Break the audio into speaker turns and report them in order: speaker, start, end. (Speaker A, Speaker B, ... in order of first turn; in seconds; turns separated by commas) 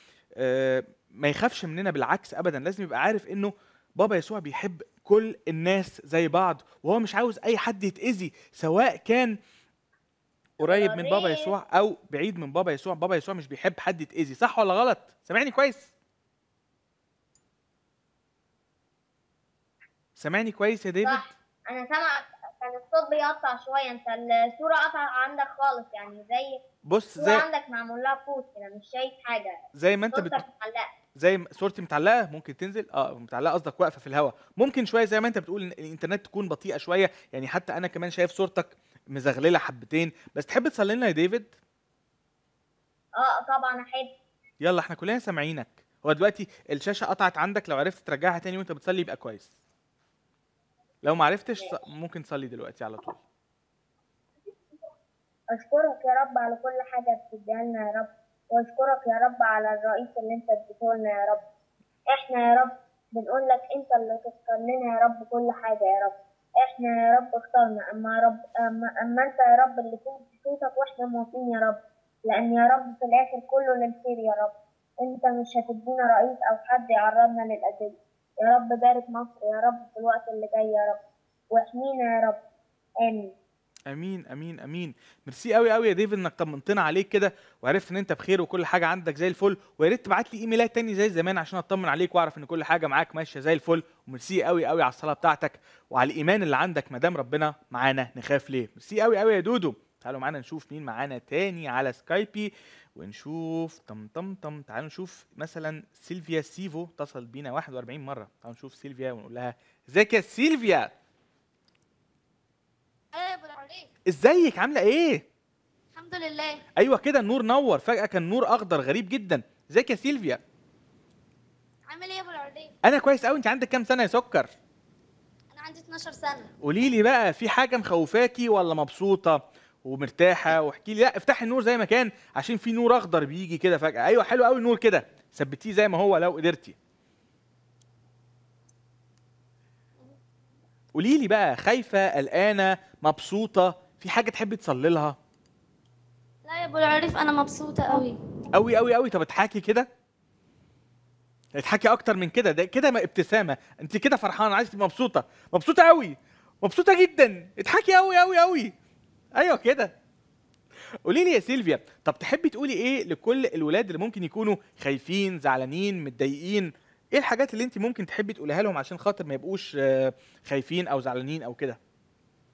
Speaker A: 0.4-9.3, Speaker A: 10.6-15.9, Speaker B: 10.6-11.5, Speaker A: 20.2-21.3, Speaker B: 21.0-26.6, Speaker A: 26.9-27.4, Speaker B: 27.2-29.6, Speaker A: 29.7-30.4, Speaker B: 30.1-30.9, Speaker A: 31.2-41.5, Speaker B: 43.2-44.1, Speaker A: 44.6-49.5, Speaker A: 51.0-53.2, Speaker B: 55.5-61.4, Speaker B: 62.1-81.0, Speaker B: 81.5-82.4, Speaker B: 83.0-83.3, Speaker A: 83.9-110.9, Speaker C: 113.1-113.9, Speaker A: 114.1-115.2, Speaker C: 115.9-116.6, Speaker A: 116.8-120.4, Speaker C: 121.9-122.7, Speaker A: 122.8-124.5, Speaker C: 125.5-126.5, Speaker A: 126.6-136.8, Speaker A: 140.9-145.2, Speaker C: 146.5-148.2, Speaker A: 148.5-149.9, Speaker A: 151.6-158.7, Speaker A: 159.4-159.9, Speaker A: 161.1-171.8